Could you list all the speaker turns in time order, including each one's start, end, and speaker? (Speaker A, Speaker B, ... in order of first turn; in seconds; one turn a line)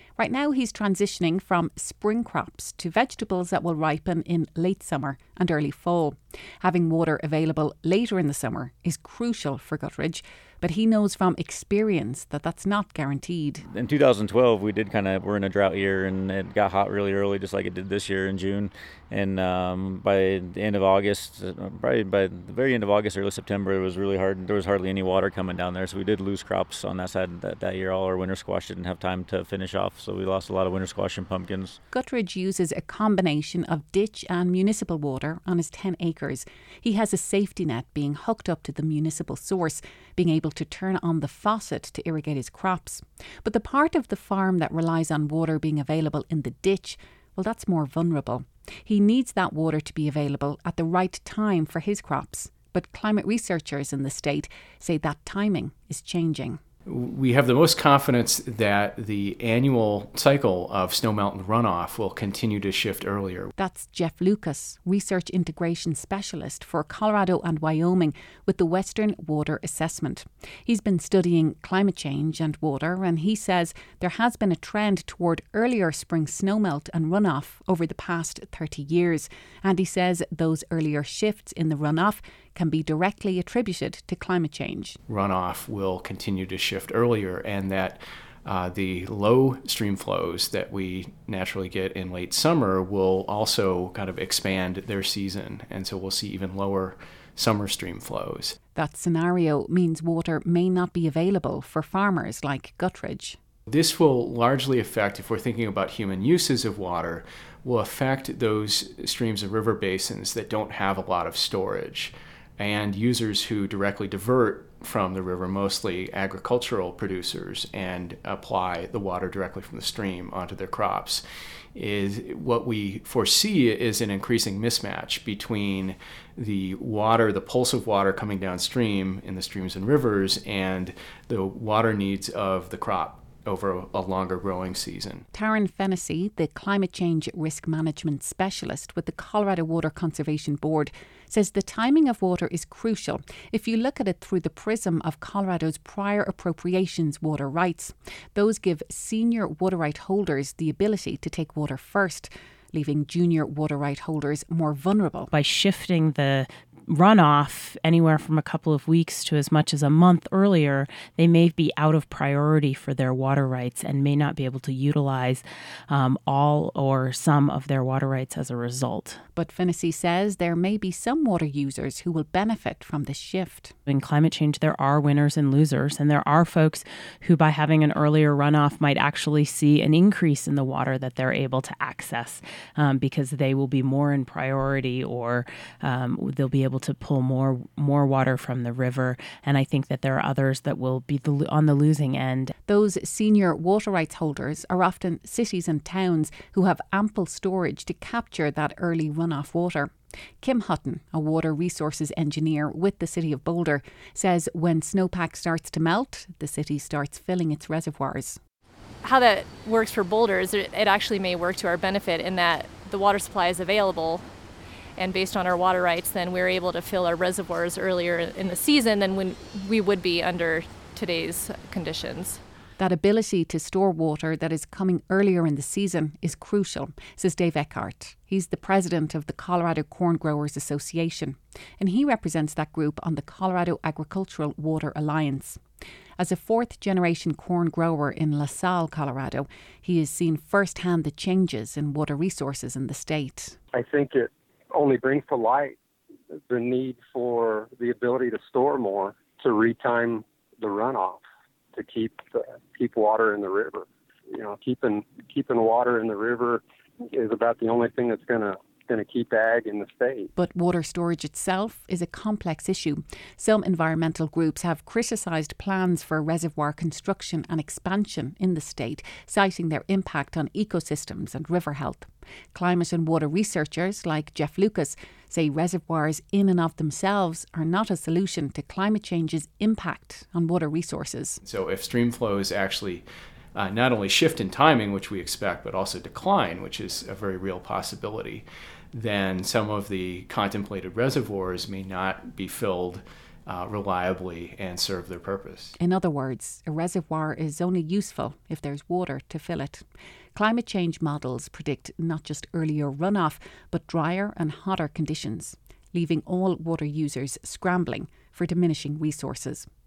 Speaker A: 0.2-13.6
Speaker B: 13.7-31.8
Speaker A: 31.9-56.6
Speaker C: 56.9-63.5
Speaker A: 63.6-85.0
Speaker C: 85.1-98.6
Speaker A: 98.8-103.4
Speaker C: 103.7-121.2
Speaker C: 121.8-135.2
Speaker A: 135.3-155.3
Speaker D: 155.3-169.2
Speaker A: 169.3-173.8
Speaker D: 173.9-192.5
Speaker A: 192.7-208.4
Speaker E: 209.0-214.2
Speaker E: 215.0-222.4
Speaker A: 222.8-235.6
Speaker A: 236.2-243.6
Speaker F: 243.7-245.8
Speaker F: 246.3-260.3
Speaker A: 260.4-281.4
Speaker C: 281.4-295.8
Speaker A: 295.8-309.7